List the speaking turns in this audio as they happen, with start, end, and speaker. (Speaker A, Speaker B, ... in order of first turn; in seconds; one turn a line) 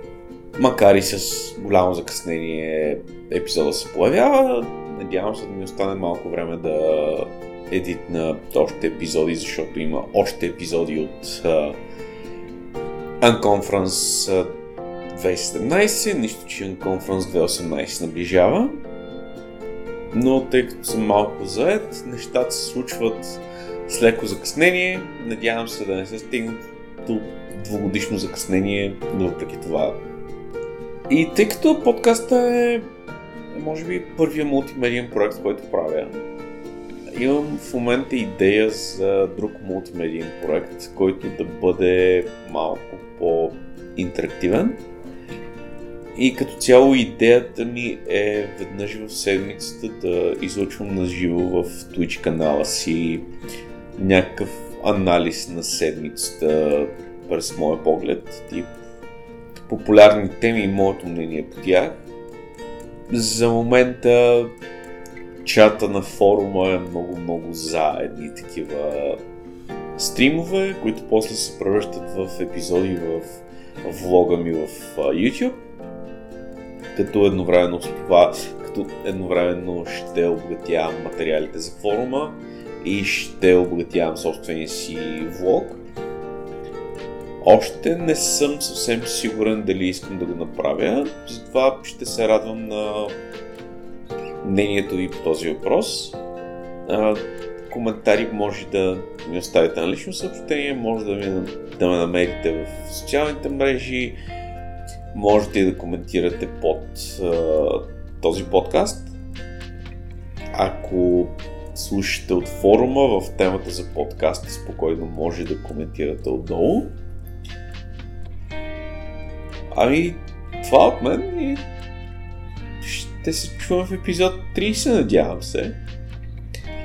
Speaker A: 0.6-11.8
Speaker A: 13.2-14.5
Speaker A: 15.1-18.8
Speaker A: 20.1-30.0
Speaker A: 31.1-32.9
Speaker A: 33.5-36.2
Speaker A: 37.1-44.8
Speaker A: 46.1-53.3
Speaker A: 54.0-58.8
Speaker A: 59.7-62.0
Speaker A: 63.1-64.5
Speaker A: 65.4-69.2
Speaker A: 70.0-75.6
Speaker A: 76.9-85.8
Speaker A: 87.4-93.2
Speaker A: 94.4-96.2
Speaker A: 96.9-104.2
Speaker A: 105.1-109.1
Speaker A: 110.5-117.0
Speaker A: 119.7-121.7
Speaker A: 122.8-125.8